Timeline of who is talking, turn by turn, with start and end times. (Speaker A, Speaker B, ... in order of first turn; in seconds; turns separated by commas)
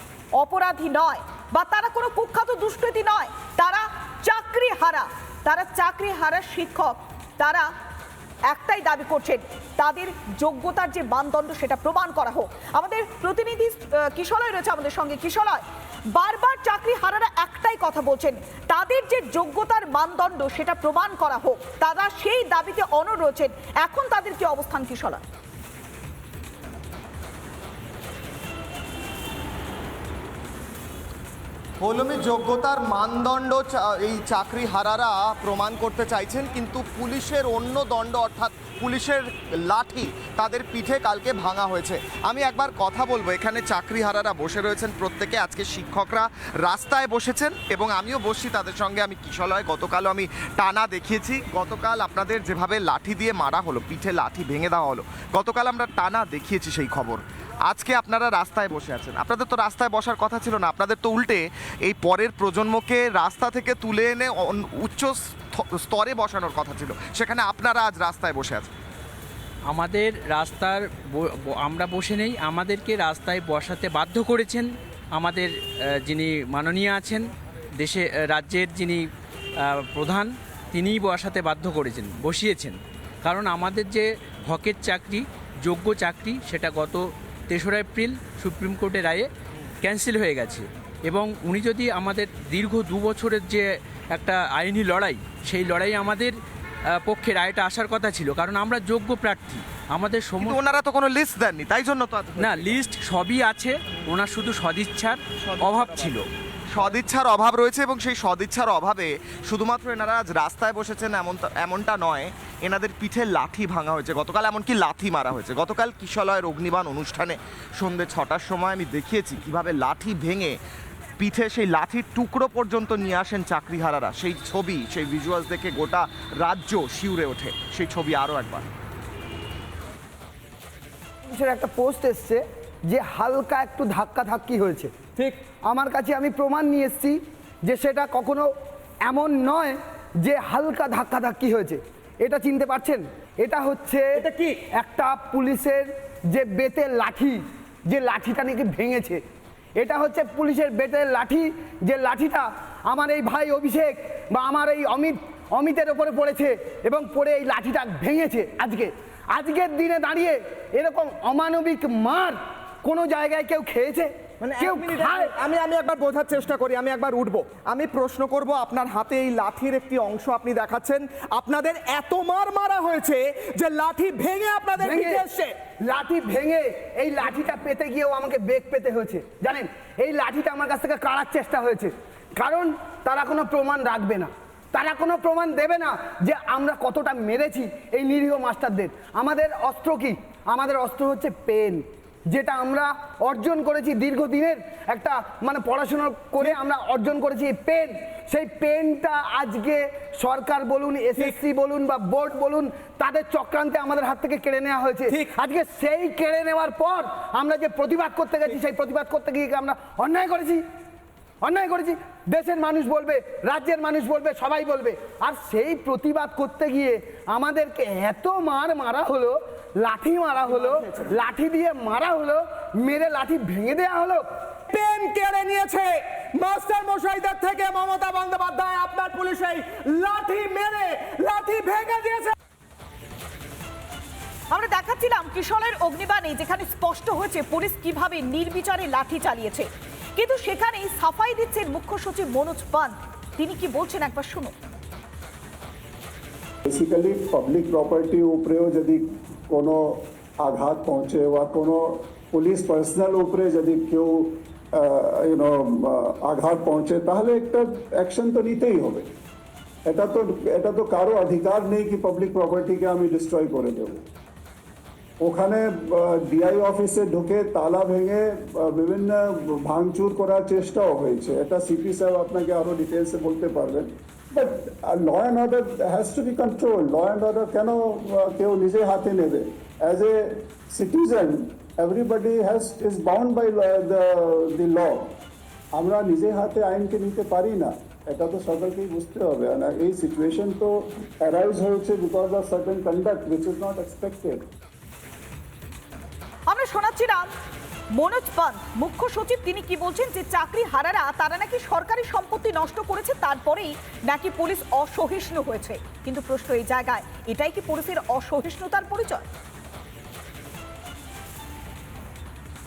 Speaker A: 0.4-7.7, Speaker A: 8.5-25.2, Speaker B: 31.8-68.7, Speaker C: 69.7-77.2, Speaker C: 77.8-79.0, Speaker C: 79.8-89.3, Speaker C: 89.8-93.6, Speaker C: 94.2-96.3, Speaker C: 97.1-100.3, Speaker B: 100.4-102.8, Speaker C: 102.4-106.2, Speaker B: 105.6-106.2, Speaker B: 106.7-120.6, Speaker B: 121.2-128.7, Speaker D: 131.2-134.9, Speaker D: 135.5-138.5, Speaker D: 139.1-149.2, Speaker E: 144.2-144.6, Speaker D: 149.8-165.3, Speaker E: 164.4-175.6, Speaker D: 174.8-175.2, Speaker D: 175.8-210.6, Speaker D: 211.4-224.3, Speaker E: 220.4-221.1, Speaker E: 224.7-232.3, Speaker A: 234.5-244.5, Speaker F: 246.7-259.1, Speaker F: 259.9-264.0, Speaker F: 265.2-285.2, Speaker F: 285.8-294.4, Speaker A: 296.5-297.3, Speaker A: 298.0-309.3